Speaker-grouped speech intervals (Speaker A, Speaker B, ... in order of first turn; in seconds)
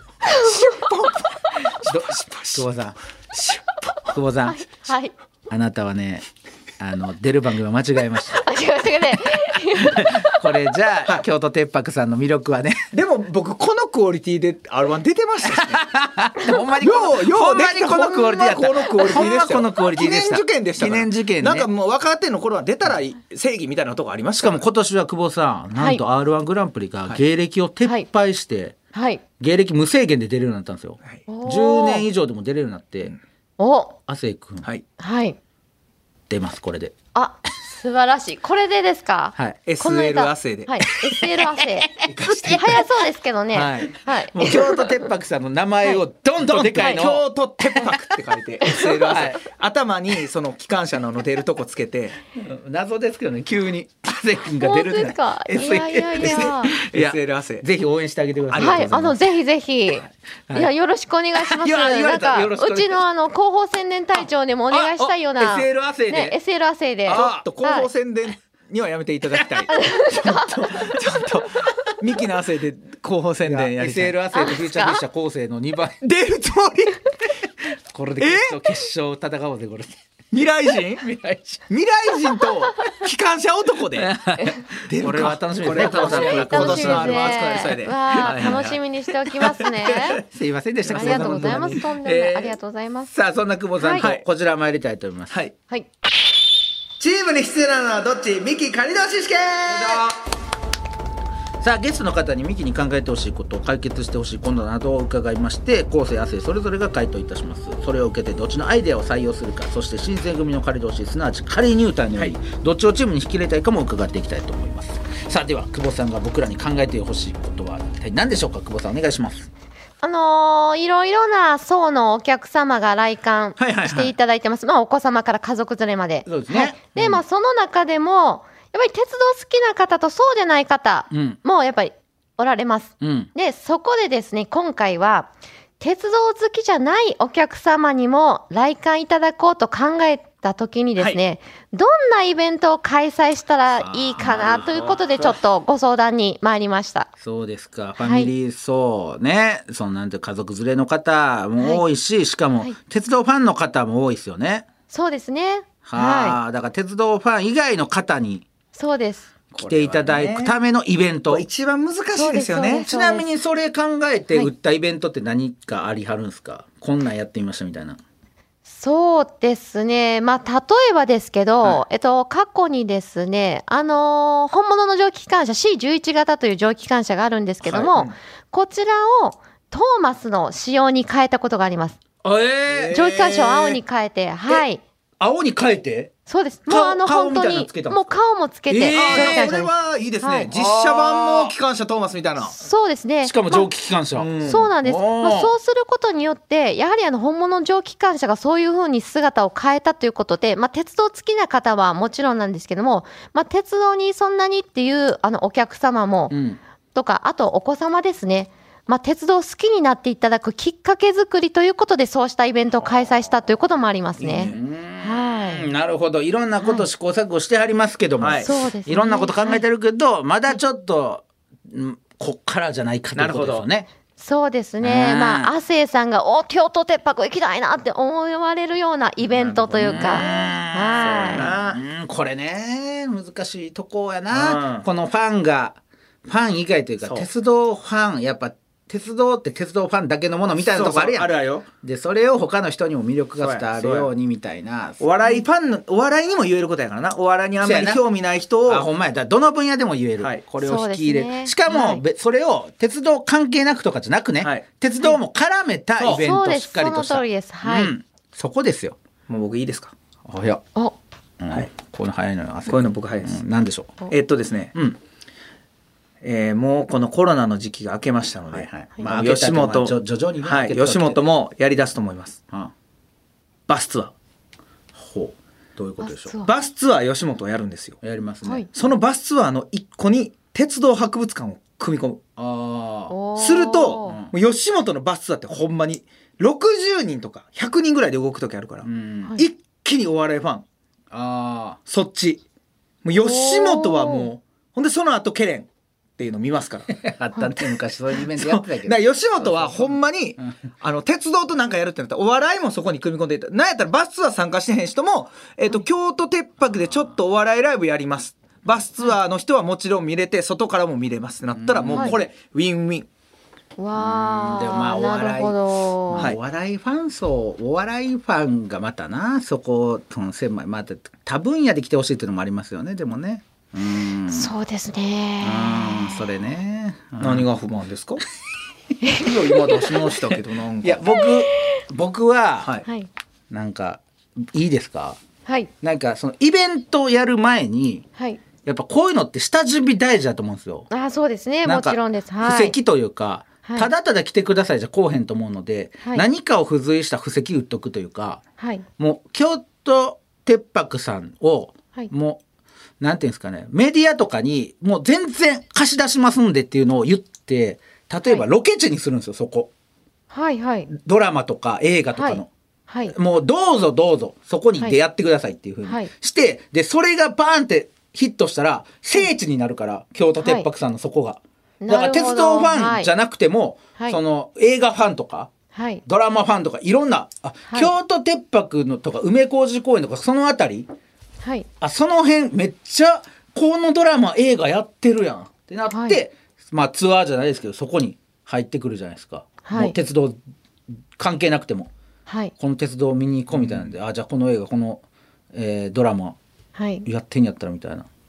Speaker A: 0.4-2.6, 3.3-3.9, 12.9-15.9, 16.8-24.6, 39.7-40.8, 42.1-42.8, 43.5-43.9, 46.4-52.2, 56.2-57.6, 58.5-59.0, 67.1-74.2, 76.0-77.0, 78.2-78.6, 80.3-81.1, 81.7-84.2, 84.8-88.8, 89.3-90.0, 90.9-92.4, 94.0-94.2, 97.0-100.0, 144.7-145.3, 159.5-160.6, 161.3-162.9, 177.7-178.1, 182.7-183.8, 188.8-192.5, 194.2-194.7, 214.2-214.6, 218.2-218.5, 223.2-223.7, 229.3-231.8, 234.3-234.9, 237.0-237.3, 240.6-241.7, 243.4-244.1, 245.0-248.9, 256.0-256.2, 259.3-259.9, 262.7-263.4, 264.1-264.7, 266.2-272.4, 273.7-274.1, 276.4-278.0, 278.7-282.2, 283.4-290.6, 291.9-292.4, 293.0-296.9, 298.3-313.1, 327.2-328.2, 329.2-331.0
Speaker B: 1.8-3.0, 4.1-4.7, 5.5-6.2, 6.8-8.5, 9.8-12.9, 15.4-21.7, 24.4-28.8, 29.4-33.1, 34.1-34.7, 36.3-37.0, 41.8-42.9, 44.1-48.0, 48.8-49.4, 52.4-59.2, 61.4-63.0, 64.8-66.4, 67.1-67.4, 73.4-76.0, 77.9-80.0, 81.0-81.6, 84.0-88.7, 90.1-92.4, 93.1-95.4, 99.7-100.2, 101.6-119.5, 123.6-124.1, 126.3-127.2, 131.1-131.4, 133.0-133.3, 143.8-144.9, 147.2-154.7, 155.8-158.5, 159.6-161.5, 162.9-168.0, 182.2-183.0, 185.2-186.1, 186.7-188.2, 188.7-189.6, 190.5-191.6, 193.2-195.6, 206.3-206.6, 214.2-223.9, 224.8-225.5, 229.8-245.0, 247.6-248.0, 248.7-259.0, 260.3-260.6, 261.4-264.1, 268.5-271.2, 274.9-276.4, 278.0-278.7, 282.4-283.1, 284.0-284.3, 288.8-289.4, 291.1-291.8, 296.9-300.5, 311.6-312.2, 313.9-324.5, 325.4-327.5, 330.3-332.8, 333.5-335.2, 335.8-338.1, 338.6-340.9, 341.6-348.4, 349.0-352.4, 353.0-359.7, 360.9-362.5, 363.1-375.5, 376.1-380.9, 381.8-390.4, 391.2-391.9, 392.6-396.4, 397.1-398.1
Speaker C: 4.5-5.1, 8.3-10.4, 25.8-26.0, 28.9-29.2, 31.3-32.1, 33.6-34.0, 35.0-35.4, 37.1-41.9, 42.5-45.0, 54.6-56.7, 58.6-67.9, 69.7-70.6, 74.3-75.0, 85.8-90.2, 90.9-93.1, 93.8-94.1, 120.0-147.1, 148.0-148.3, 151.6-151.8, 154.9-156.4, 158.7-159.3, 162.1-163.3, 168.7-182.0, 182.9-184.8, 186.3-190.5, 192.6-193.7, 194.4-206.4, 206.9-215.7, 216.6-216.9, 218.4-219.6, 224.2-231.5, 250.6-252.0, 256.1-257.9, 276.0-276.5, 283.1-284.2, 293.2-294.3, 313.8-316.3, 324.3-326.2, 340.9-342.8, 348.6-348.9, 360.3-360.9, 362.2-363.1, 370.4-370.7, 371.8-373.1, 375.8-376.0, 381.4-381.7, 385.9-386.2, 389.6-390.0, 392.3-392.5, 396.8-397.1